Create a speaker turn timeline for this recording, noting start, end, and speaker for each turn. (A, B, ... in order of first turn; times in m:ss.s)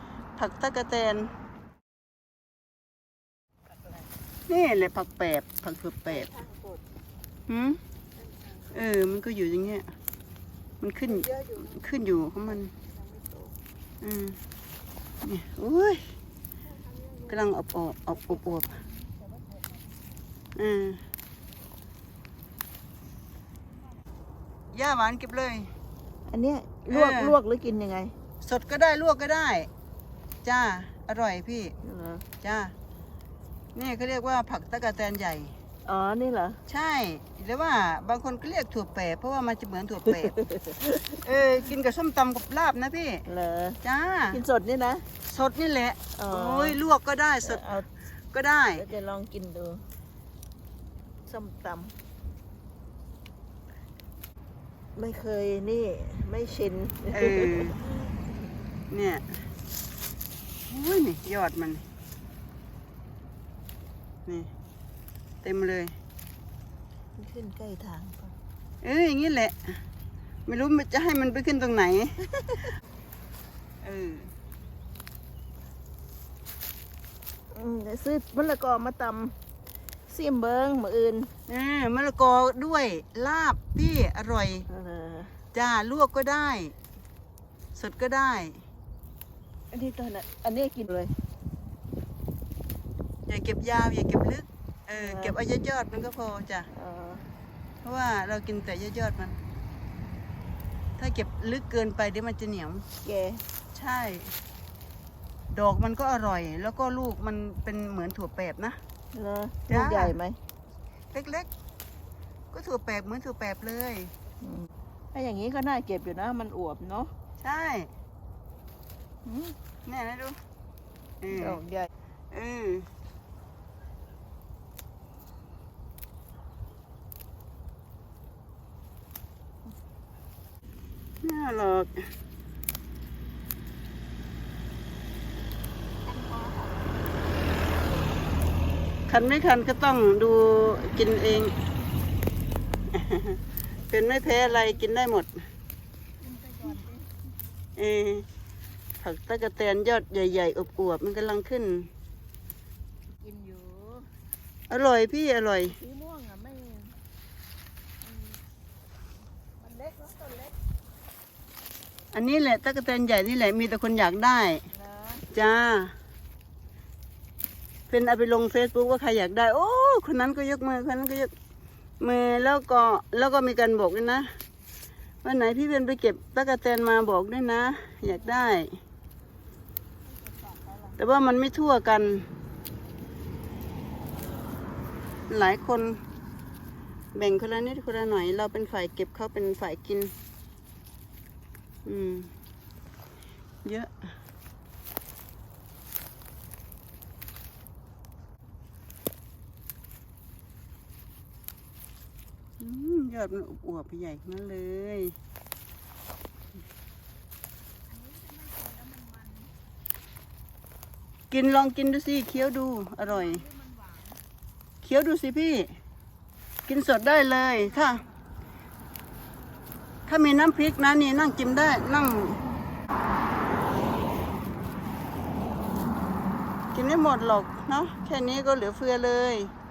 0:00.4-0:01.3 A
0:04.5-0:06.3 A
0:06.1-0:06.8 B
0:07.5-0:07.8 A
0:08.2-0:08.7 B
0:08.7-0:09.9 A
0:10.8-0:12.7 A
0:11.1-0:11.8 B
0:12.7-0:13.5 B
0:14.0-0:14.4 A
0:15.2-0:16.0 A
0:16.6-0:17.5 B
0:17.3-0:18.7 A
0:18.1-0:20.0 B
0:20.6-0:21.0 A
0:24.7-0:25.7 A
0:26.3-0:28.1 B
0:26.9-0:27.4 A
0:28.4-0:29.7 A
0:30.4-0:31.7 A
0:31.8-0:32.2 B
0:32.4-0:32.7 A
0:33.7-0:35.6 A
0:35.8-0:36.6 B
0:36.7-0:43.2 A
0:40.0-0:41.2 B
0:43.2-0:45.0 B
0:43.8-0:44.4 A
0:45.2-0:47.7 A
0:46.1-0:46.8 B
0:47.4-0:47.9 B
0:48.3-0:48.8 A
0:48.7-0:49.8 B
0:51.3-0:51.9 B
0:55.0-0:58.1 B
0:57.1-0:57.8 A
0:58.9-0:59.2 A
1:00.7-1:01.8 A
1:05.4-1:05.9 A
1:07.2-1:08.4 B
1:08.8-1:09.8 A
1:10.5-1:12.7 A
1:13.8-1:14.3 A
1:17.5-1:19.3 B
1:20.1-1:21.3 B
1:21.5-1:24.7 A
1:24.7-1:25.3 B
1:25.5-1:26.7 A
1:27.8-1:28.6 A
1:29.7-1:31.2 B
1:33.3-1:36.7 A
1:34.9-1:35.4 B
1:36.7-1:37.2 B
1:37.8-1:39.4 A
1:41.0-1:42.8 A
1:43.0-1:43.4 B
1:43.7-1:44.3 A
1:45.5-1:48.8 A
1:49.1-1:50.4 B
1:49.7-1:50.2 A
1:51.1-1:51.5 A
1:52.5-1:54.1 A
1:54.4-1:57.1 B
1:57.4-1:57.9 A
1:59.2-1:59.6 B
1:59.8-2:00.4 A
2:01.2-2:01.6 A
2:01.3-2:01.9 B
2:02.3-2:02.9 A
2:11.2-2:12.0 A
2:16.1-2:17.0 B
2:19.1-2:21.6 A
2:22.9-2:25.3 A
2:24.2-2:24.8 B
2:26.2-2:27.1 B
2:27.8-2:28.2 A
2:29.0-2:31.9 A
2:33.2-2:34.1 B
2:34.7-2:35.8 A
2:35.6-2:37.0 B
2:39.6-2:40.6 B
2:42.1-2:44.6 A
2:44.7-2:45.2 B
2:45.3-2:45.9 A
2:47.9-2:51.3 A
2:52.0-2:54.3 A
2:55.2-2:58.7 A
3:00.1-3:01.0 B
3:01.0-3:02.3 A
3:05.3-3:06.0 A
3:07.1-3:10.1 A
3:11.8-3:12.3 A
3:13.6-3:13.9 A
3:22.6-3:25.1 A
3:27.9-3:29.5 B
3:31.3-3:33.4 A
3:33.0-3:34.2 B
3:34.8-3:35.7 A
3:36.7-3:38.0 A
3:37.6-3:38.1 B
3:40.1-3:42.4 A
3:46.7-3:49.5 A